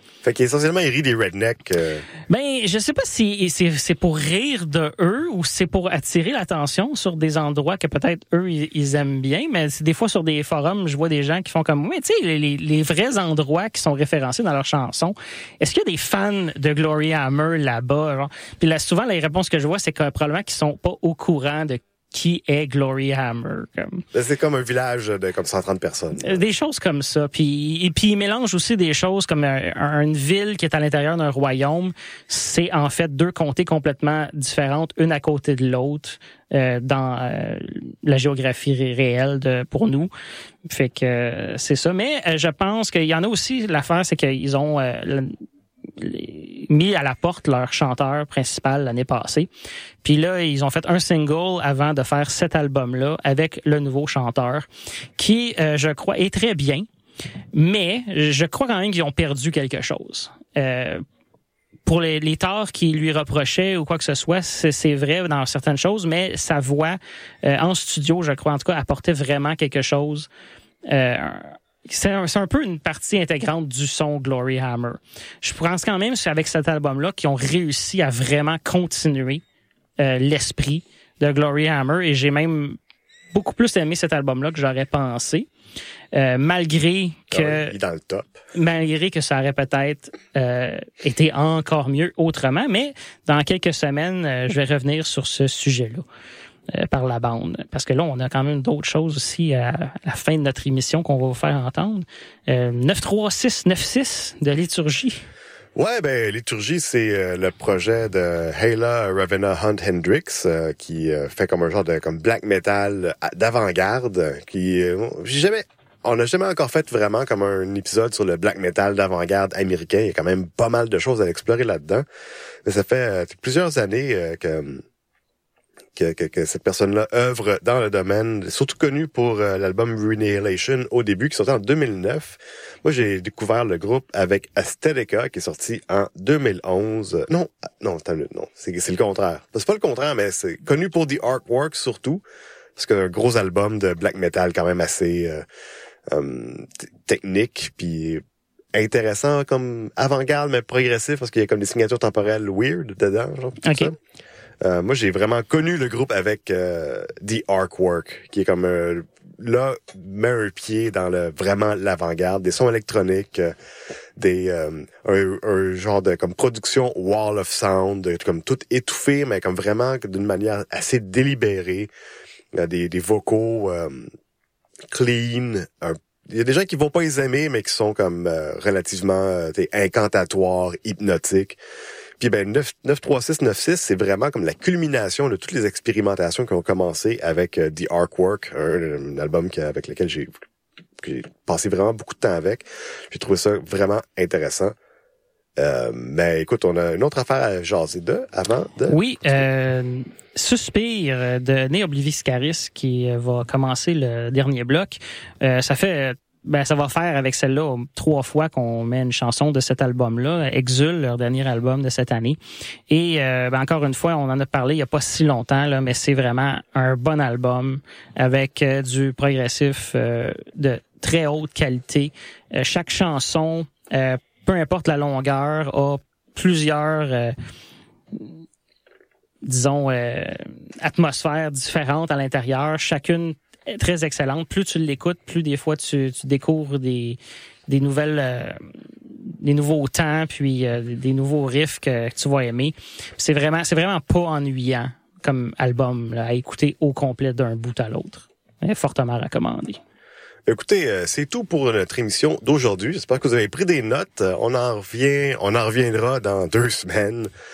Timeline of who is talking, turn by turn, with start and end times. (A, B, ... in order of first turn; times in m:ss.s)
0:00.2-0:02.1 A
0:02.3-0:24.0 B
0:24.1-0:26.4 A
0:26.2-0:40.1 B
0:40.7-0:45.4 B
0:46.0-0:49.5 B
0:50.0-0:56.9 B
0:57.5-1:01.0 B
1:01.9-1:10.3 B
1:10.9-1:19.4 B
1:20.0-1:22.8 B
1:23.3-1:25.5 B
1:26.1-1:27.7 B
1:27.3-1:28.4 A
1:28.6-1:36.1 B
1:36.7-1:45.2 B
1:45.8-2:02.0 A
2:02.6-2:04.8 A
2:06.0-2:22.2 A
2:22.8-2:25.4 A
2:26.1-2:28.2 A
2:28.7-2:34.0 A
2:33.6-2:33.9 B
2:34.6-2:43.5 A
2:44.2-2:51.9 A
2:52.5-2:54.1 A
2:54.9-3:01.6 A
3:02.2-3:10.3 A
3:11.0-3:14.8 A
3:15.6-3:19.4 A
3:18.9-3:32.4 B
3:32.9-3:47.4 B
3:49.5-3:58.6 B
3:59.2-4:09.8 B
4:10.5-4:17.3 A